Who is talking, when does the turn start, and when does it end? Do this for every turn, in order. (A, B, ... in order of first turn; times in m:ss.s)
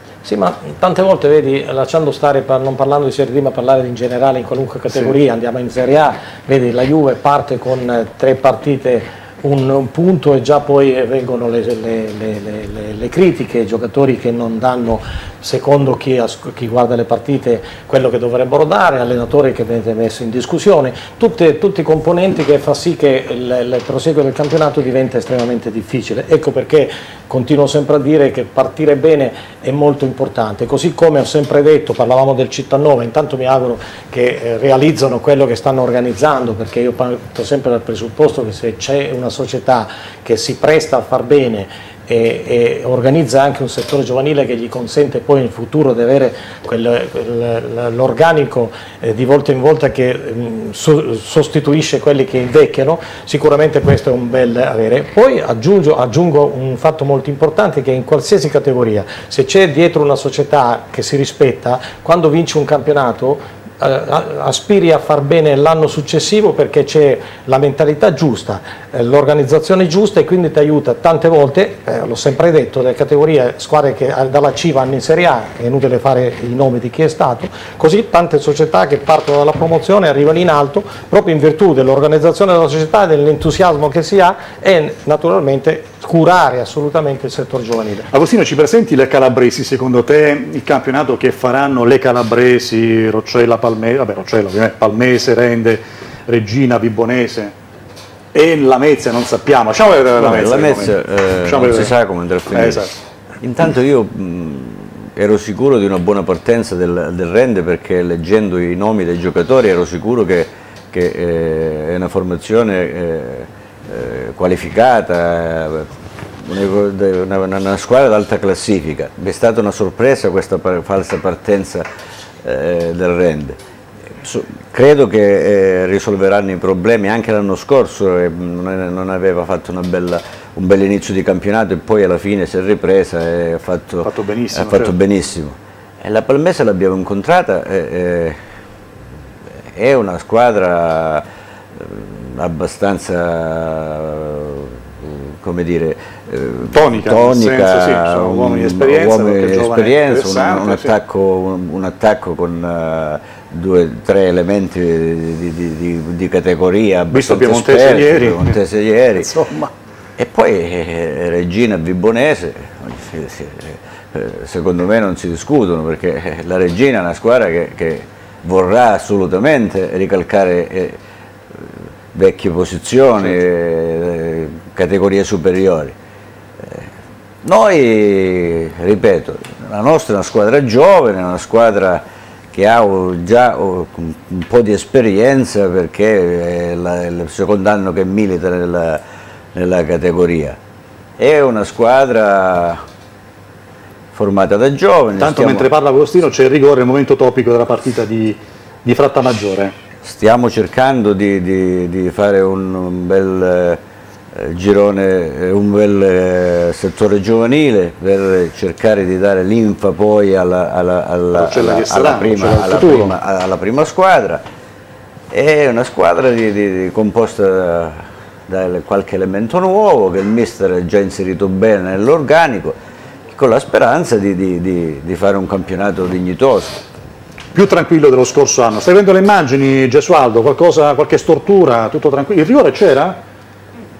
0:00.2-1:28.1 A
1:28.1-1:37.5 B
1:38.3-1:41.9 B
1:40.2-2:01.8 C
1:42.5-1:42.9 B
2:02.4-2:03.6 C
2:04.2-2:18.4 C
2:14.0-2:14.9 B
2:19.8-2:39.4 C
2:26.7-2:30.9 B
2:37.1-2:38.6 B
2:39.2-2:39.7 B
2:40.2-2:51.0 C
2:51.6-2:56.0 C
2:56.6-2:56.9 C
2:57.4-3:09.0 C
3:09.6-3:10.6 C
3:11.2-3:12.8 C
3:14.1-3:15.7 C
3:15.2-3:19.7 B
3:20.0-3:23.8 C
3:24.4-3:34.4 C
3:31.3-3:33.1 B
3:35.3-3:42.8 C
3:43.3-3:46.9 C
3:47.5-3:53.2 B